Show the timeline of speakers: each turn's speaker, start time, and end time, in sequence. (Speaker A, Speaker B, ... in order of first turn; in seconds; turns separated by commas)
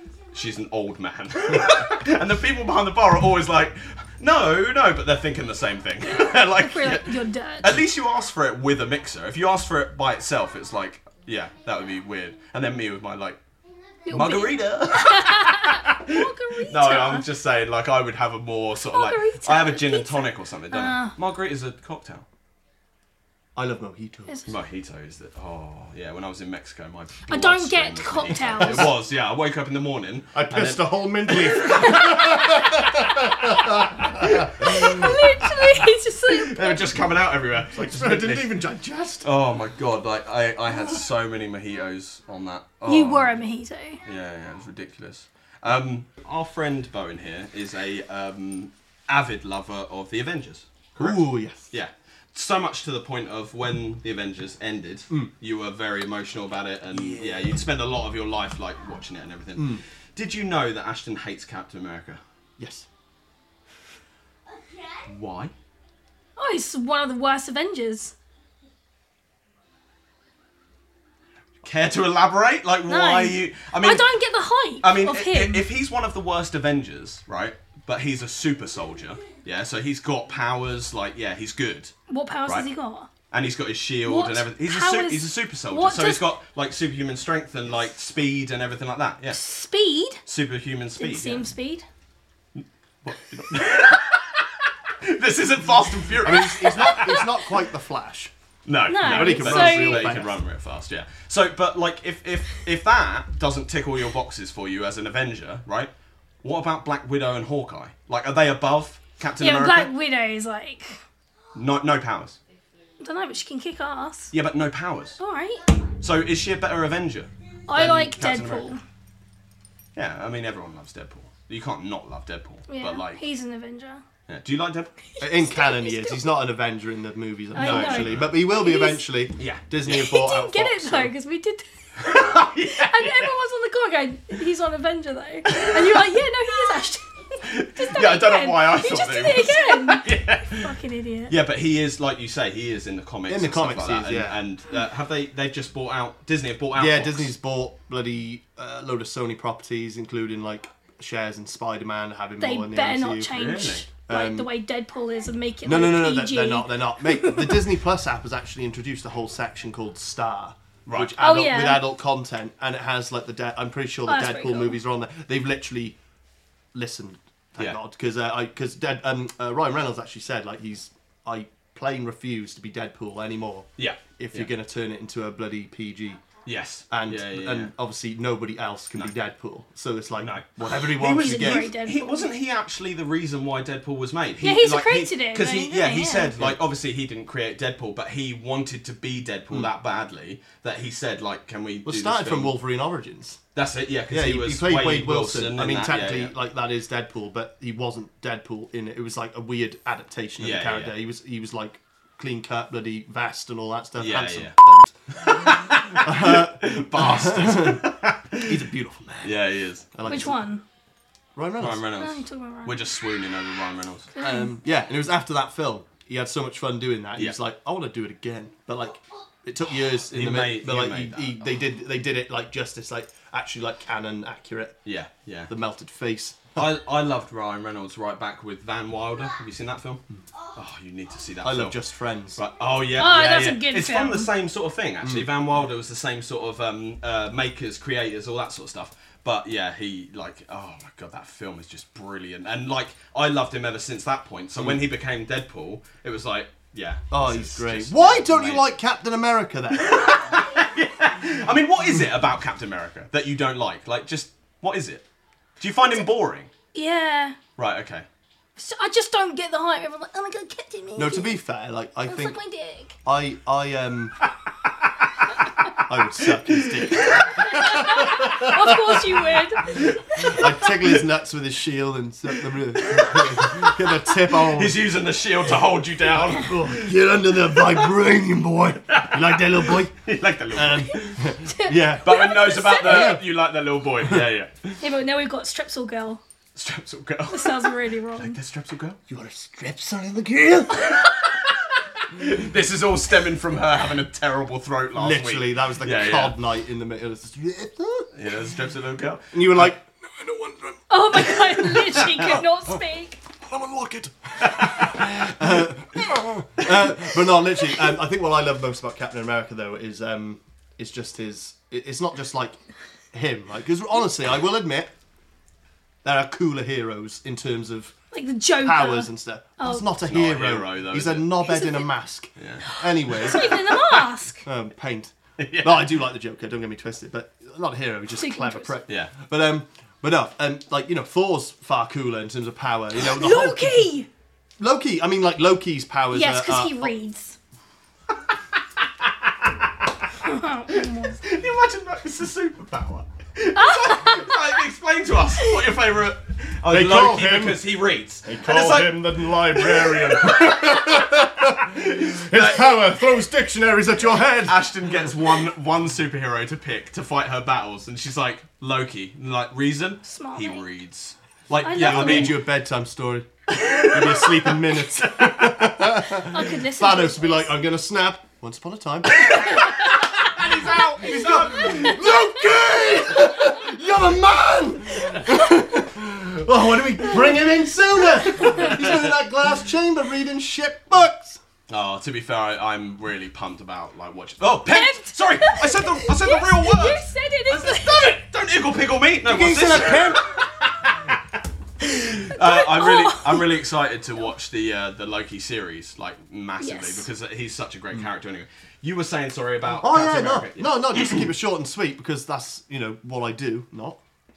Speaker A: 0.3-13.4, Speaker B: 6.1-7.8, Speaker A: 14.1-22.2, Speaker B: 14.1-17.3, Speaker B: 18.9-21.1, Speaker C: 23.6-24.4, Speaker A: 24.5-32.8, Speaker B: 27.3-28.9, Speaker C: 30.3-34.9, Speaker A: 34.0-35.1, Speaker B: 34.6-37.0, Speaker A: 36.3-38.5, Speaker C: 37.7-39.3, Speaker A: 39.2-43.4, Speaker B: 42.9-44.0, Speaker A: 44.0-62.2, Speaker C: 51.0-51.7, Speaker C: 56.9-57.6, Speaker C: 59.6-59.8, Speaker C: 62.6-62.9, Speaker A: 65.0-65.5, Speaker B: 66.4-68.1, Speaker A: 71.6-74.1, Speaker B: 72.9-75.7, Speaker A: 74.8-81.9, Speaker B: 82.1-83.1, Speaker A: 83.3-89.4, Speaker B: 84.0-86.3, Speaker B: 89.3-90.2, Speaker A: 90.2-91.5, Speaker B: 91.0-91.9, Speaker A: 92.6-97.4, Speaker C: 96.2-98.3, Speaker A: 98.7-105.9, Speaker B: 98.9-100.2, Speaker C: 98.9-100.4, Speaker A: 106.4-109.9, Speaker B: 109.4-111.0, Speaker A: 111.5-112.4, Speaker B: 113.0-114.3, Speaker A: 114.3-115.2, Speaker B: 115.2-115.7, Speaker A: 116.0-118.7, Speaker B: 117.7-118.8, Speaker A: 120.0-123.2, Speaker B: 122.7-124.0, Speaker A: 124.3-124.9, Speaker B: 125.2-126.2, Speaker C: 125.2-131.1, Speaker B: 127.5-129.0, Speaker A: 127.6-128.3, Speaker A: 129.4-130.0, Speaker B: 129.9-141.4, Speaker A: 132.0-133.3, Speaker A: 135.5-136.0, Speaker A: 137.4-140.7, Speaker A: 141.3-147.3, Speaker C: 143.3-144.4, Speaker C: 146.8-153.4, Speaker B: 152.4-157.7, Speaker A: 153.3-153.9, Speaker C: 154.1-154.5, Speaker C: 155.7-166.0, Speaker A: 160.9-161.1, Speaker B: 161.2-161.9, Speaker B: 164.1-164.8, Speaker C: 166.7-176.3, Speaker A: 173.8-174.5, Speaker A: 176.4-177.7, Speaker C: 176.9-181.7, Speaker A: 180.2-192.5, Speaker B: 181.0-182.3, Speaker B: 184.4-186.3, Speaker C: 186.4-186.6, Speaker C: 191.8-193.4, Speaker A: 193.6-196.3, Speaker C: 194.1-209.4, Speaker A: 200.4-200.9, Speaker A: 204.0-204.6, Speaker A: 205.1-208.6, Speaker A: 209.2-209.9, Speaker C: 209.9-210.4, Speaker B: 210.1-210.6, Speaker C: 211.4-211.9, Speaker A: 211.6-214.1, Speaker B: 212.0-212.8, Speaker B: 214.2-214.5, Speaker C: 214.2-224.8, Speaker A: 220.0-221.4, Speaker A: 224.8-225.5, Speaker C: 225.5-226.6, Speaker A: 226.6-231.8, Speaker C: 231.4-232.4, Speaker A: 232.3-248.7, Speaker B: 233.0-234.3, Speaker C: 235.0-235.3, Speaker C: 247.1-250.4, Speaker A: 249.8-255.1, Speaker A: 255.6-256.5, Speaker B: 256.7-257.4, Speaker A: 257.6-258.1, Speaker B: 258.6-261.4, Speaker C: 261.0-262.4, Speaker B: 262.1-263.0, Speaker C: 263.1-264.2, Speaker C: 265.9-269.1, Speaker A: 266.5-267.8, Speaker B: 267.1-270.4, Speaker A: 269.6-270.4, Speaker C: 270.2-274.8, Speaker A: 272.7-277.9, Speaker C: 276.1-279.9, Speaker A: 278.9-281.3, Speaker C: 280.5-282.2, Speaker B: 281.4-283.2, Speaker A: 282.0-284.8, Speaker C: 282.7-283.2, Speaker B: 284.8-286.2, Speaker A: 286.6-289.0, Speaker B: 287.3-288.4, Speaker C: 289.1-291.1, Speaker A: 290.9-296.4, Speaker C: 294.9-298.1, Speaker A: 298.1-299.7, Speaker C: 299.3-302.7, Speaker B: 300.9-303.2, Speaker A: 301.9-302.4, Speaker C: 303.4-312.6, Speaker A: 304.4-305.5, Speaker C: 313.1-314.9, Speaker C: 316.0-317.9, Speaker B: 318.1-319.9, Speaker C: 318.6-333.9, Speaker A: 320.1-321.5, Speaker B: 321.4-321.9, Speaker A: 322.4-323.7, Speaker B: 322.7-324.4, Speaker A: 325.4-326.0, Speaker B: 328.1-328.7, Speaker A: 328.9-329.1, Speaker B: 333.0-334.1, Speaker C: 334.6-336.9, Speaker B: 336.1-337.4, Speaker A: 339.0-340.0, Speaker B: 340.2-341.2, Speaker A: 340.8-352.8, Speaker B: 343.6-344.6, Speaker C: 346.7-347.6, Speaker C: 348.2-354.6, Speaker A: 354.4-362.4, Speaker B: 360.0-360.7, Speaker B: 361.6-362.4, Speaker C: 361.6-381.4, Speaker A: 363.6-365.8, Speaker B: 366.2-367.5, Speaker A: 369.2-372.1, Speaker A: 381.7-401.2, Speaker B: 384.7-388.2, Speaker C: 389.2-390.3, Speaker B: 392.3-393.5, Speaker B: 396.6-397.1, Speaker C: 399.7-404.0